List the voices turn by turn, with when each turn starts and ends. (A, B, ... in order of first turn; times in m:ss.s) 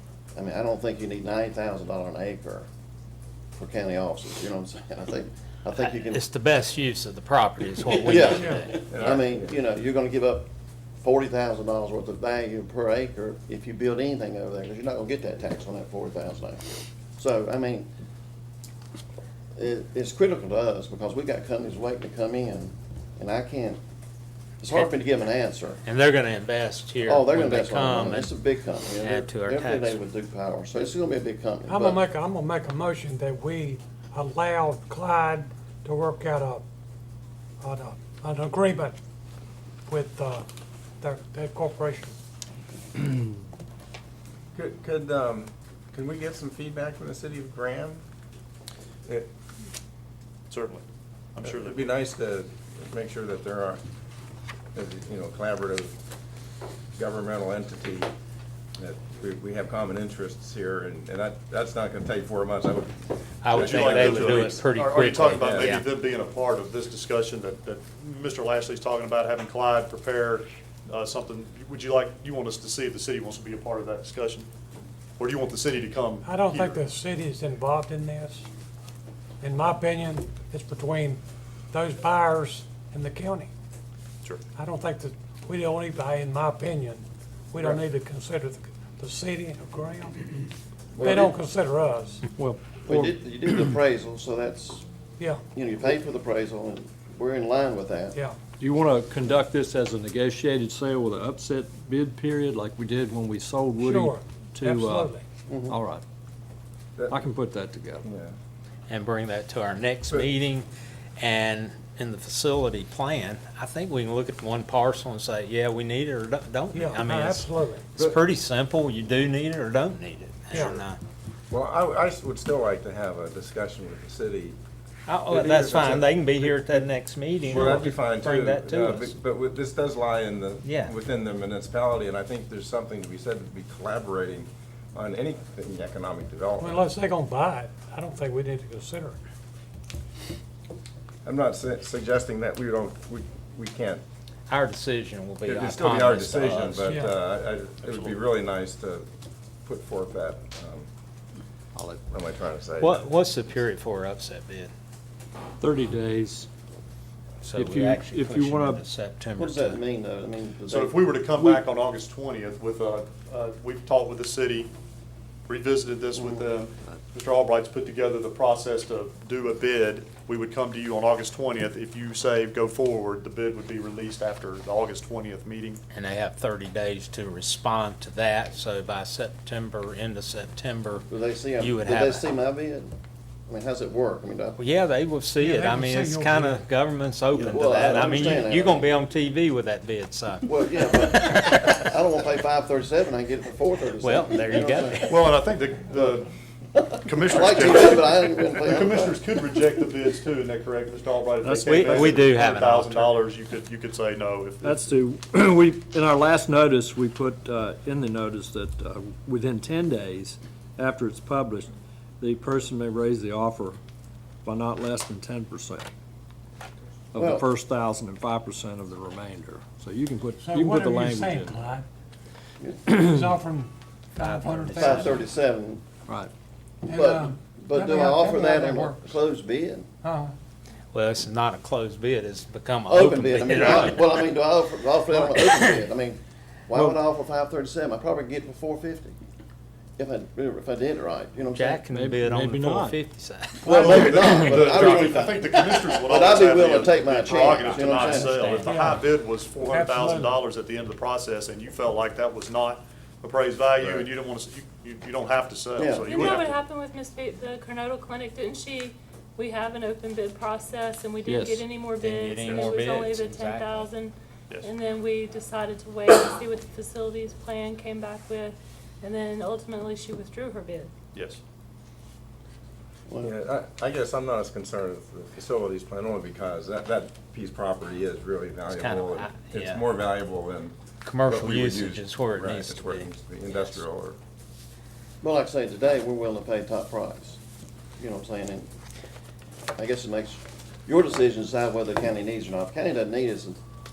0:00.3-0:02.7 A
0:03.6-0:06.2 A
0:05.7-0:09.1 B
0:07.9-0:10.5 A
0:08.3-0:08.6 C
0:08.9-0:09.5 D
0:11.0-0:17.9 A
0:19.6-0:23.8 A
0:24.6-0:25.8 A
0:25.8-0:28.3 B
0:27.0-0:32.0 A
0:29.0-0:30.0 B
0:31.7-0:36.6 C
0:37.6-0:39.0 C
0:39.9-0:40.4 C
0:41.0-0:42.1 C
0:44.5-0:48.0 D
0:50.5-0:50.8 E
0:51.3-0:51.9 E
0:51.4-0:53.8 D
0:54.7-0:56.0 D
0:56.9-0:58.1 D
0:58.8-1:04.6 D
1:03.4-1:05.8 B
1:03.5-1:14.5 E
1:05.4-1:05.8 D
1:15.2-1:16.8 E
1:16.2-1:18.5 C
1:19.4-1:23.5 C
1:24.6-1:32.3 C
1:31.0-1:31.2 A
1:32.3-1:33.1 F
1:32.8-1:34.8 A
1:35.5-1:38.2 A
1:38.6-1:45.1 F
1:43.9-1:45.2 C
1:45.5-1:45.8 A
1:45.7-1:46.0 F
1:47.0-1:47.3 D
1:47.1-1:48.0 F
1:48.0-1:48.3 D
1:48.9-2:01.0 B
1:56.7-1:57.8 C
2:00.5-2:00.8 C
2:01.5-2:04.6 D
2:05.0-2:09.1 B
2:05.3-2:06.8 D
2:07.4-2:16.9 D
2:10.6-2:10.9 B
2:16.6-2:19.2 C
2:21.2-2:24.0 D
2:24.5-2:26.9 B
2:25.4-2:29.1 D
2:27.8-2:28.2 E
2:29.6-2:30.9 D
2:31.8-2:32.1 F
2:32.1-2:33.1 D
2:32.8-2:34.7 B
2:35.6-2:36.5 F
2:37.4-2:39.8 B
2:37.6-2:38.8 F
2:39.4-2:41.1 A
2:40.7-2:44.7 E
2:45.5-2:55.8 E
2:46.1-2:46.4 A
2:55.9-3:02.3 B
3:01.1-3:02.9 A
3:03.5-3:04.6 A
3:04.6-3:11.8 B
3:05.4-3:06.6 C
3:07.4-3:08.9 A
3:10.4-3:15.3 A
3:14.0-3:15.1 B
3:15.1-3:16.3 E
3:16.8-3:19.2 A
3:17.0-3:24.9 E
3:21.4-3:22.3 F
3:21.6-3:23.2 B
3:24.6-3:33.8 F
3:34.4-3:35.9 F
3:37.1-3:41.7 F
3:37.1-3:37.5 A
3:40.4-3:41.8 C
3:42.9-3:45.2 C
3:44.2-3:45.0 B
3:44.8-3:45.8 A
3:46.8-3:49.2 C
3:46.9-3:49.9 A
3:50.0-3:50.3 C
3:50.9-3:54.0 B
3:52.9-3:59.1 A
4:00.0-4:01.8 A
4:01.5-4:03.5 B
4:01.9-4:03.0 F
4:03.6-4:08.5 A
4:03.7-4:16.6 E
4:03.8-4:04.6 F
4:08.1-4:10.4 C
4:13.8-4:14.1 D
4:15.8-4:16.3 A
4:16.0-4:30.9 G
4:21.2-4:21.6 F
4:22.0-4:23.9 B
4:31.1-4:31.4 E
4:33.1-4:33.3 A
4:33.2-4:44.2 D
4:38.7-4:39.8 B
4:41.0-4:43.8 B
4:45.2-4:47.4 A
4:48.0-4:48.7 A
4:49.8-4:53.6 A